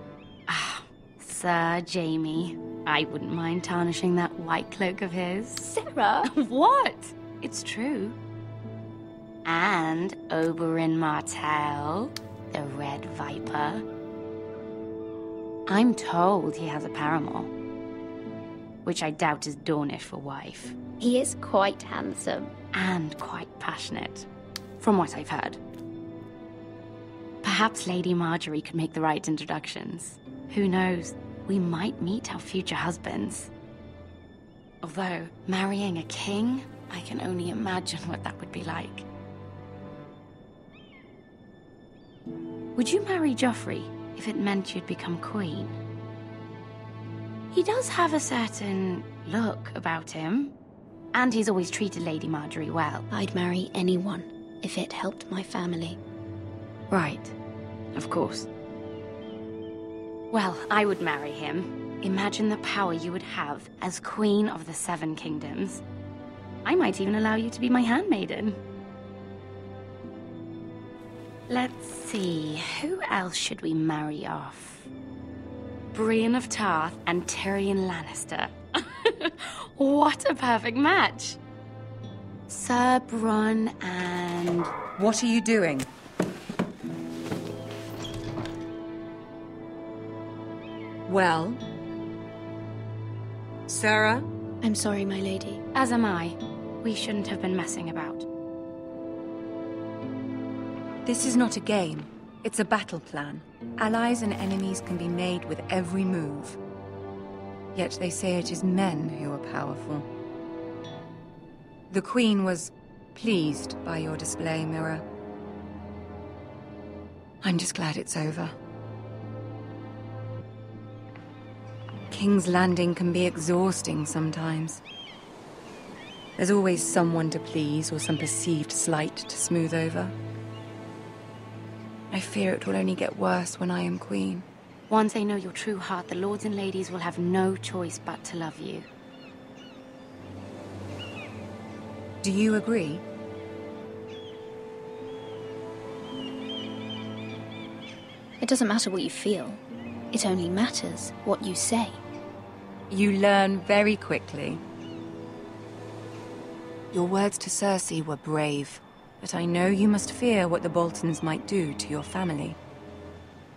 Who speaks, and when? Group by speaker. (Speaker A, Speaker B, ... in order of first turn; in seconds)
Speaker A: 0.5-5.7, 6.2-8.2, 9.4-13.8, 15.7-17.5, 18.8-20.7, 22.7-24.3, 24.8-25.6, 27.4-33.5, 34.8-39.0, 42.8-45.8, 47.5-50.5, 51.1-53.1, 56.9-57.3, 57.9-58.5, 60.3-65.8, 66.6-68.6, 71.5-74.9, 75.9-81.4, 82.5-84.7, 95.7-98.2, 134.9-138.9
Speaker B: 5.7-6.3, 21.0-22.5, 53.1-56.0, 94.6-95.6, 148.4-152.0
Speaker C: 85.0-85.9, 91.0-91.6, 93.7-94.2, 101.0-106.6, 107.7-110.1, 111.9-115.0, 117.4-118.5, 122.1-124.8, 126.4-130.1, 132.1-134.4, 142.2-143.0, 152.9-154.6, 156.9-162.6